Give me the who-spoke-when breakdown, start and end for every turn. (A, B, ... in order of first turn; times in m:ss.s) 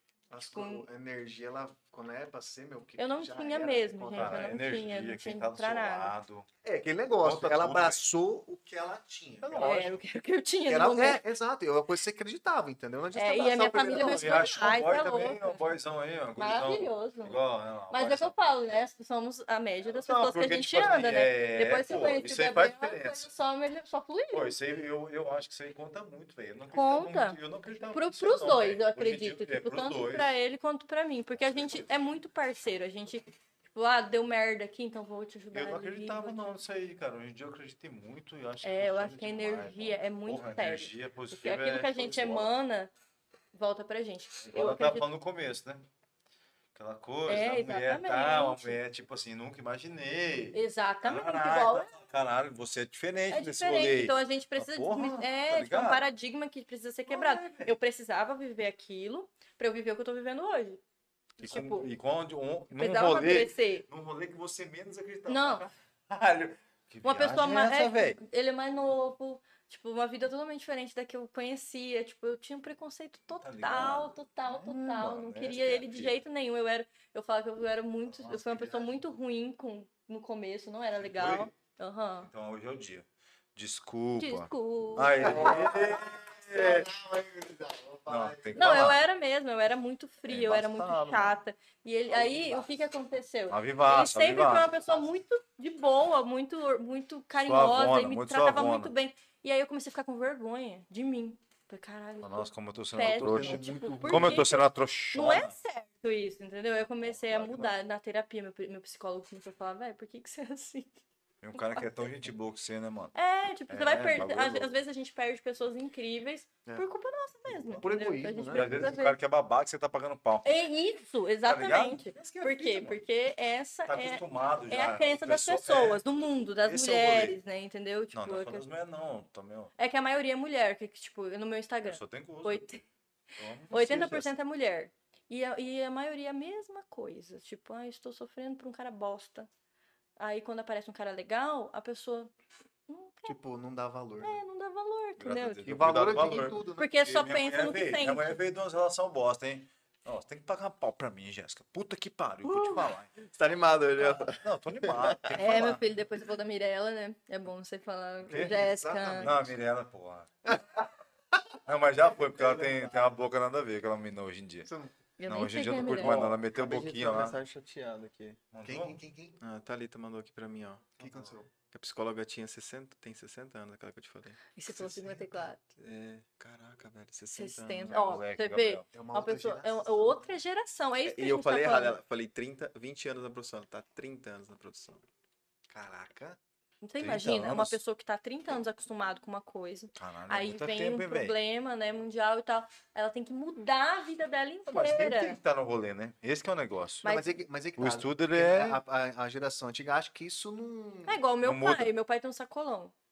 0:00.3-0:04.6 A
0:00.4-0:00.8 B
0:03.0-0:06.1 B
0:04.1-0:06.5 C
0:06.6-0:09.8 A
0:07.2-0:08.0 C
0:09.4-0:09.9 C
0:09.6-0:11.2 B
0:10.6-0:14.4 A
0:13.1-0:15.6 B
0:13.9-0:18.4 C
0:16.4-0:17.4 B
0:17.9-0:24.5 B
0:19.9-0:23.3 C
0:24.3-0:30.4 C
0:26.7-0:27.4 B
0:27.9-0:36.5 B
0:35.5-0:42.5 C
0:38.6-0:42.9 B
0:43.5-0:45.0 B
0:44.4-0:45.8 C
0:46.7-0:56.1 C
0:47.2-0:48.8 B
0:50.5-0:51.9 B
0:53.3-1:00.8 B
0:57.1-0:57.7 C
1:01.4-1:01.9 B
1:01.4-1:08.2 C
1:02.8-1:03.8 B
1:05.3-1:05.6 B
1:07.0-1:22.3 B
1:13.4-1:16.2 C
1:18.1-1:18.9 C
1:21.0-1:21.5 C
1:22.2-1:26.9 C
1:24.2-1:25.5 B
1:25.2-1:28.7 A
1:25.4-1:25.9 D
1:28.1-1:29.0 C
1:28.5-1:44.6 B
1:30.3-1:31.4 C
1:33.5-1:34.7 C
1:37.4-1:38.9 C
1:42.2-1:45.5 C
1:43.0-1:44.6 A
1:45.1-1:51.0 B
1:47.0-1:47.7 C
1:51.4-1:53.1 C
1:51.6-1:51.9 B
1:53.1-1:59.2 B
1:53.7-1:54.7 C
1:57.6-1:57.8 C
1:57.8-1:59.0 A
1:58.5-2:00.5 C
2:00.4-2:08.6 B
2:01.4-2:03.0 C
2:03.9-2:06.0 C
2:06.6-2:07.4 C
2:08.1-2:09.7 C
2:09.8-2:12.8 B
2:11.8-2:12.7 C
2:13.4-2:14.3 C
2:13.7-2:19.5 B
2:20.2-2:22.3 B
2:22.9-2:23.4 B
2:23.2-2:24.4 A
2:24.2-2:25.7 B
2:25.2-2:33.1 C
2:25.6-2:27.0 A
2:26.2-2:26.5 D
2:26.8-2:28.4 B
2:32.4-2:35.2 D
2:34.0-2:35.8 C
2:35.3-2:39.3 B
2:38.2-2:38.5 C
2:38.3-2:39.5 A
2:39.2-2:40.6 C
2:41.6-2:44.7 C
2:42.4-2:43.1 D
2:44.6-2:44.9 A
2:45.2-2:46.2 B
2:45.3-2:47.4 C
2:45.7-2:48.4 D
2:48.5-2:49.0 C
2:48.6-2:49.4 A
2:49.4-2:54.5 D
2:51.0-2:51.5 A
2:54.5-2:55.6 B
2:55.8-2:58.1 D
2:57.3-3:02.0 B
2:57.9-2:58.8 C
2:58.9-3:00.3 A
3:01.0-3:05.0 D
3:05.7-3:06.4 A
3:06.8-3:15.4 B
3:07.0-3:07.8 C
3:10.0-3:11.3 C
3:14.7-3:17.2 C
3:17.0-3:21.2 A
3:17.8-3:18.8 C
3:21.1-3:22.9 B
3:21.4-3:21.9 C